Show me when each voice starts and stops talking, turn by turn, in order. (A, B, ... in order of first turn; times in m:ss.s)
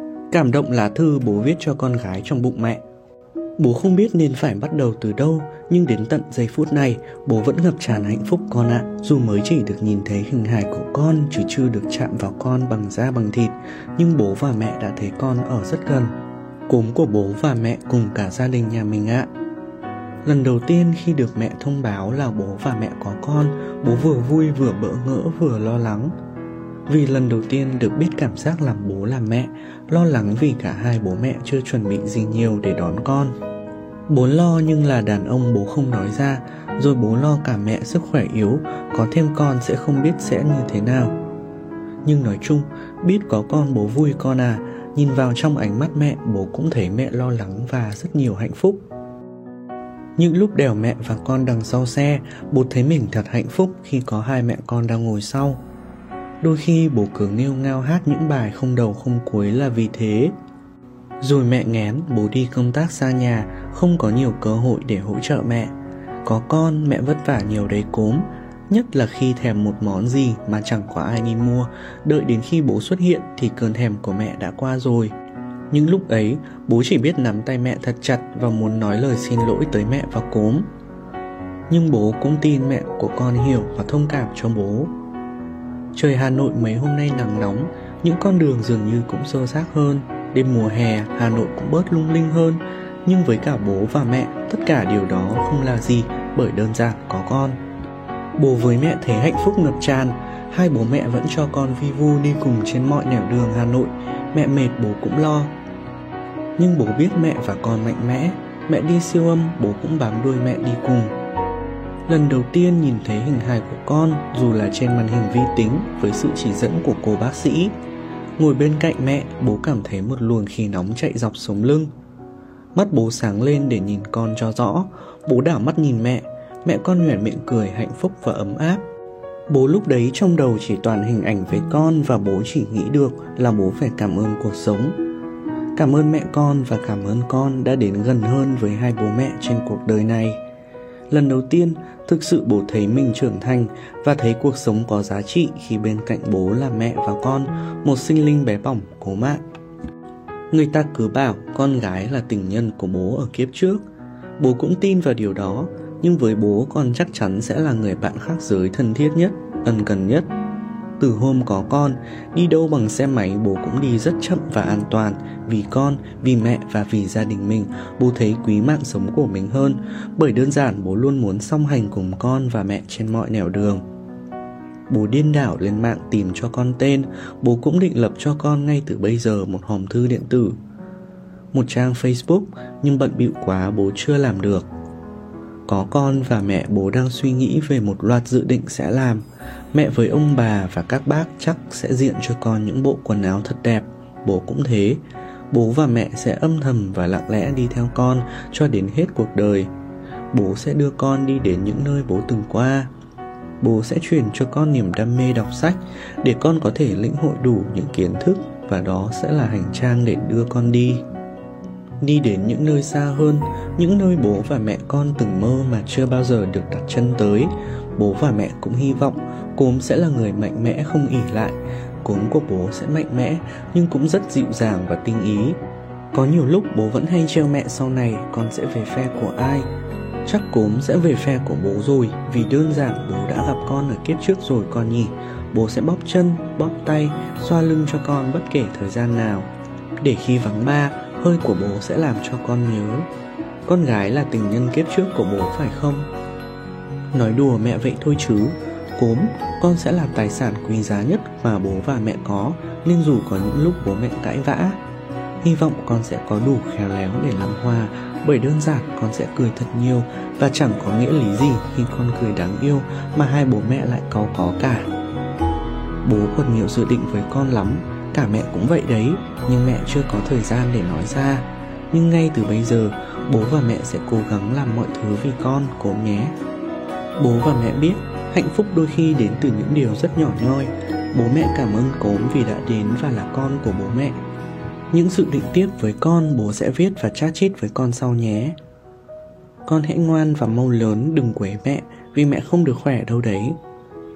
0:00.3-0:02.8 A
0:03.6-0:16.1 A
0:16.7-0:19.3 A
0:20.2-0:26.1 A
0:26.9-0:33.3 A
0:34.1-0:41.2 A
0:42.0-0:48.8 A
0:50.2-0:55.6 A
0:56.4-1:00.3 A
1:01.2-1:05.7 A
1:06.2-1:15.2 A
1:15.7-1:20.7 A
1:21.7-1:24.9 A
1:25.9-1:37.6 A
1:38.4-1:45.5 A
1:46.6-1:51.1 A
1:52.1-1:57.7 A
1:58.4-2:01.9 A
2:02.8-2:08.8 A
2:09.5-2:15.0 A
2:15.8-2:20.4 A
2:21.1-2:29.4 A
2:30.5-2:33.8 A
2:34.4-2:40.3 A
2:41.0-2:53.8 A
2:54.9-3:00.6 A
3:01.5-3:04.7 A
3:05.7-3:19.7 A
3:20.3-3:22.9 A
3:23.6-3:31.0 A
3:32.0-3:45.6 A
3:46.1-3:49.7 A
3:50.2-3:59.5 A
4:00.0-4:03.1 A
4:03.6-4:06.1 A
4:07.1-4:14.8 A
4:15.4-4:24.9 A
4:26.0-4:36.3 A
4:37.2-4:44.2 A
4:44.9-4:48.6 A
4:49.6-4:53.6 A